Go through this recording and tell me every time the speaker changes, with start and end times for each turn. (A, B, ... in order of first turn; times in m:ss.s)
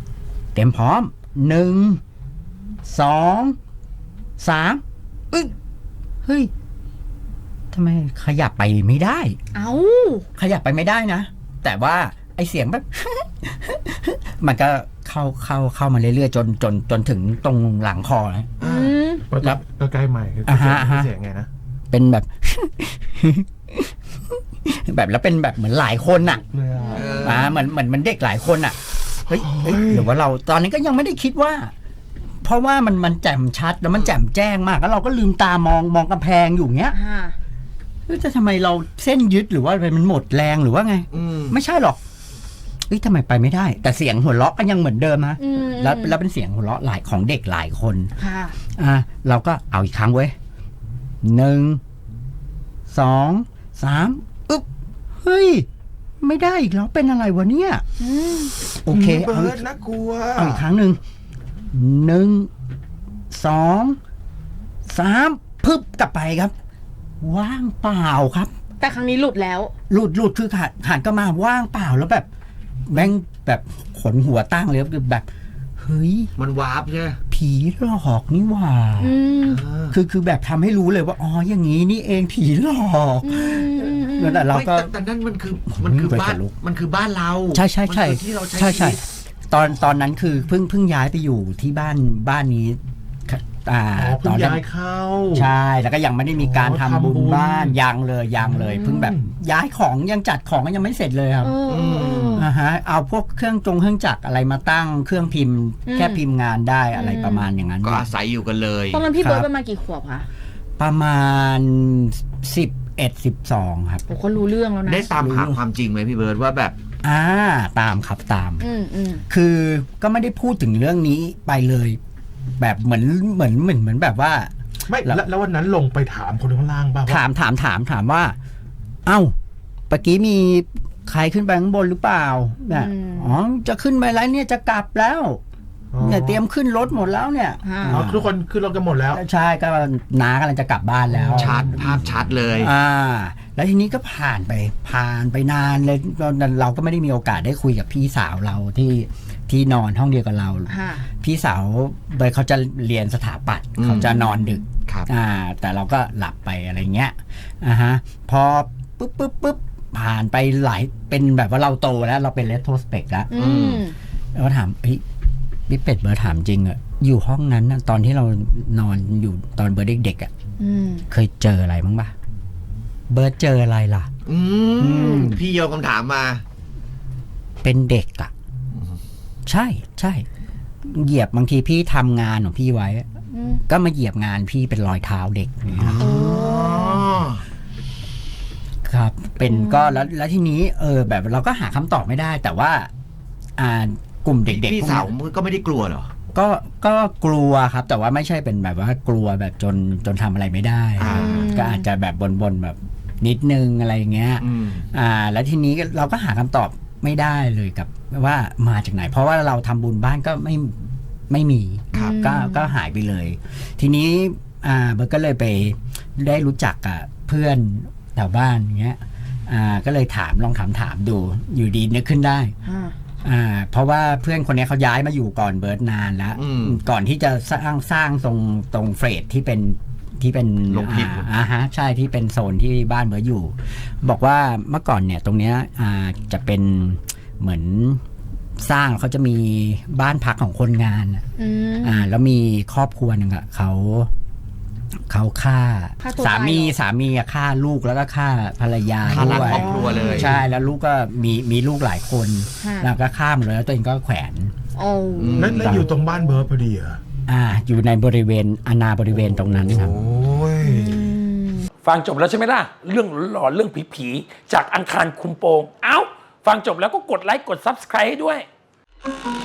0:00.5-0:02.0 A
0:02.8-0:03.6 A
0:04.4-0:04.8 A
0:06.2-0:06.5 A
0:07.7-0:09.4 A
0:09.5-0:10.2 B
0:10.4-0:18.5 A
0:18.6-0:19.0 C
0:18.6-0:19.2 B
0:19.3-0:21.5 D
0:20.4-0:21.1 A
0:21.9-0:26.4 A
0:26.4-0:27.4 D
0:26.8-0:27.3 B
0:26.9-0:27.5 C
0:27.2-0:31.7 A
0:29.3-0:30.1 D
0:32.4-0:37.0 A
0:36.9-0:37.4 B
0:38.1-0:42.0 A
0:41.1-0:41.6 C
0:42.9-0:48.1 A
0:45.4-0:46.2 B
0:48.2-0:48.6 B
0:48.6-0:50.3 A
0:51.2-0:51.8 A
0:52.9-0:54.6 A
0:55.2-0:55.7 A
0:56.2-0:57.8 A
0:58.0-0:58.5 B
0:58.8-0:59.6 A
0:58.9-1:00.6 D
1:00.4-1:01.0 A
1:01.7-1:02.5 A
1:03.3-1:04.0 A
1:04.9-1:06.5 A
1:07.2-1:08.5 A
1:08.8-1:09.7 B
1:09.9-1:12.3 A
1:12.8-1:15.2 A
1:15.8-1:16.3 A
1:16.4-1:17.2 C
1:17.3-1:19.1 A
1:19.0-1:19.6 B
1:19.4-1:20.0 C
1:19.9-1:24.9 A
1:23.2-1:24.5 B
1:24.5-1:29.0 C
1:25.7-1:26.5 A
1:27.5-1:34.6 A
1:34.0-1:35.5 D
1:35.3-1:41.6 A
1:36.4-1:37.8 D
1:38.9-1:39.2 D
1:41.4-1:42.5 B
1:41.7-1:42.4 C
1:42.2-1:48.0 A
1:45.9-1:46.2 B
1:46.9-1:47.5 B
1:47.8-1:49.0 C
1:48.9-1:50.3 B
1:49.2-1:49.5 A
1:50.8-1:54.0 A
1:54.1-1:55.1 B
1:54.8-1:56.8 C
1:55.2-1:55.6 A
1:57.0-1:58.6 A
1:58.6-1:59.2 B
1:59.3-2:02.0 A
2:02.6-2:05.2 A
2:04.9-2:07.2 D
2:07.1-2:08.4 A
2:09.0-2:09.3 A
2:09.9-2:15.4 A
2:12.7-2:13.3 B
2:15.9-2:16.4 D
2:16.0-2:18.3 A
2:17.6-2:18.0 B
2:17.9-2:19.2 D
2:19.1-2:43.3 A
2:21.1-2:21.5 D
2:21.3-2:22.7 C
2:30.7-2:31.0 B
2:33.8-2:34.1 C
2:43.3-2:44.0 B
2:43.3-2:43.9 C
2:44.3-2:45.0 A
2:45.7-2:50.3 A
2:50.6-2:51.0 B
2:51.1-2:52.1 A
2:53.1-2:54.1 A
2:54.2-2:56.4 C
2:54.8-2:55.4 A
2:54.9-2:55.3 B
2:57.6-2:58.3 A
2:58.7-2:59.0 C
2:59.5-3:00.2 A
3:00.8-3:03.0 A
3:03.3-3:03.6 B
3:03.7-3:06.2 A
3:05.7-3:07.4 C
3:06.0-3:07.0 B
3:08.8-3:12.9 A
3:09.4-3:10.1 B
3:13.6-3:15.1 A
3:14.5-3:16.1 C
3:16.3-3:30.8 A
3:21.0-3:21.6 C
3:21.1-3:21.8 B
3:24.4-3:24.8 C
3:31.3-3:42.5 A
3:32.0-3:32.7 B
3:42.6-3:43.0 B
3:43.2-3:58.0 A
3:46.4-3:46.8 C
3:50.7-3:51.3 C
3:58.6-4:01.2 A
4:01.4-4:02.0 B
4:01.8-4:04.1 A
4:05.1-4:14.5 A
4:06.0-4:06.7 B
4:09.1-4:10.4 C
4:09.1-4:10.3 B
4:12.6-4:12.9 B
4:14.7-4:16.0 B
4:15.2-4:15.9 C
4:15.3-4:17.0 D
4:17.3-4:20.1 A
4:19.7-4:20.7 C
4:20.6-4:21.7 B
4:21.8-4:28.4 E